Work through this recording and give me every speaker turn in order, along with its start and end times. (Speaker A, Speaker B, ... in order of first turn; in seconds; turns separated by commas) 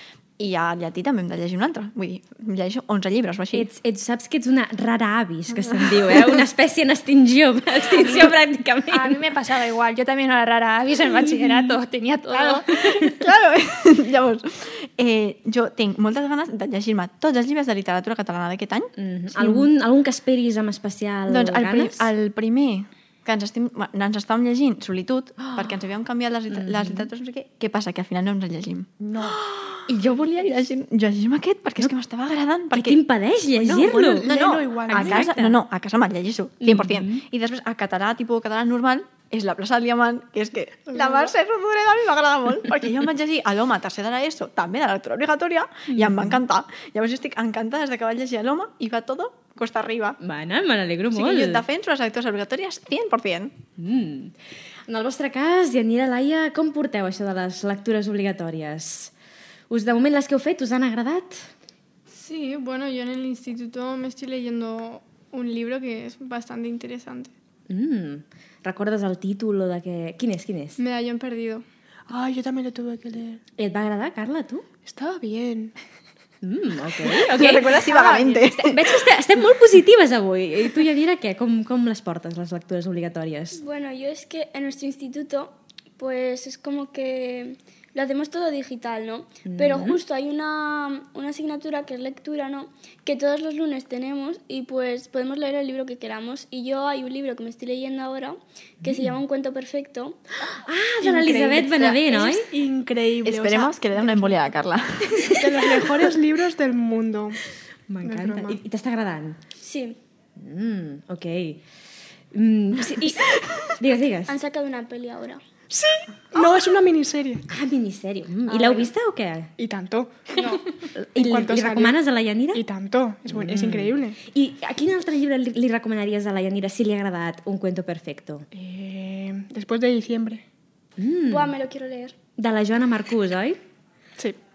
Speaker A: 0.4-3.7, Speaker B: 3.5-9.2, Speaker C: 7.9-12.7, Speaker B: 11.1-11.8, Speaker A: 12.3-19.7, Speaker B: 12.7-13.2, Speaker B: 19.0-22.1, Speaker A: 21.3-33.0, Speaker B: 26.5-27.1, Speaker C: 29.0-29.4, Speaker B: 32.7-34.3, Speaker D: 33.6-35.2, Speaker A: 34.2-50.2, Speaker B: 34.9-35.6, Speaker B: 36.6-37.2, Speaker D: 40.9-41.3, Speaker B: 45.9-46.4, Speaker B: 50.2-51.6, Speaker A: 51.1-53.5, Speaker B: 53.8-54.3, Speaker B: 54.9-59.1, Speaker B: 59.7-61.5, Speaker E: 62.1-67.3, Speaker B: 67.7-70.8, Speaker E: 70.8-71.6, Speaker D: 72.1-73.4, Speaker B: 73.6-74.6, Speaker D: 74.8-75.7, Speaker B: 76.4-77.8, Speaker A: 77.0-79.0, Speaker C: 77.9-78.4, Speaker B: 78.5-83.6, Speaker F: 83.5-100.2, Speaker B: 89.5-90.0, Speaker B: 98.8-99.2, Speaker B: 100.6-102.5, Speaker D: 101.0-104.4, Speaker A: 103.2-105.6, Speaker D: 105.3-107.4, Speaker B: 107.9-109.4, Speaker D: 108.0-108.6, Speaker F: 109.6-110.0, Speaker B: 110.3-111.6, Speaker B: 112.3-114.3, Speaker F: 114.3-115.4, Speaker D: 115.7-117.5, Speaker B: 117.5-119.5, Speaker D: 119.6-120.5, Speaker B: 120.9-122.6, Speaker D: 121.1-122.0, Speaker D: 122.5-124.2, Speaker B: 123.3-128.4, Speaker D: 128.5-130.4, Speaker B: 131.0-131.5, Speaker F: 131.3-132.2, Speaker B: 132.4-133.6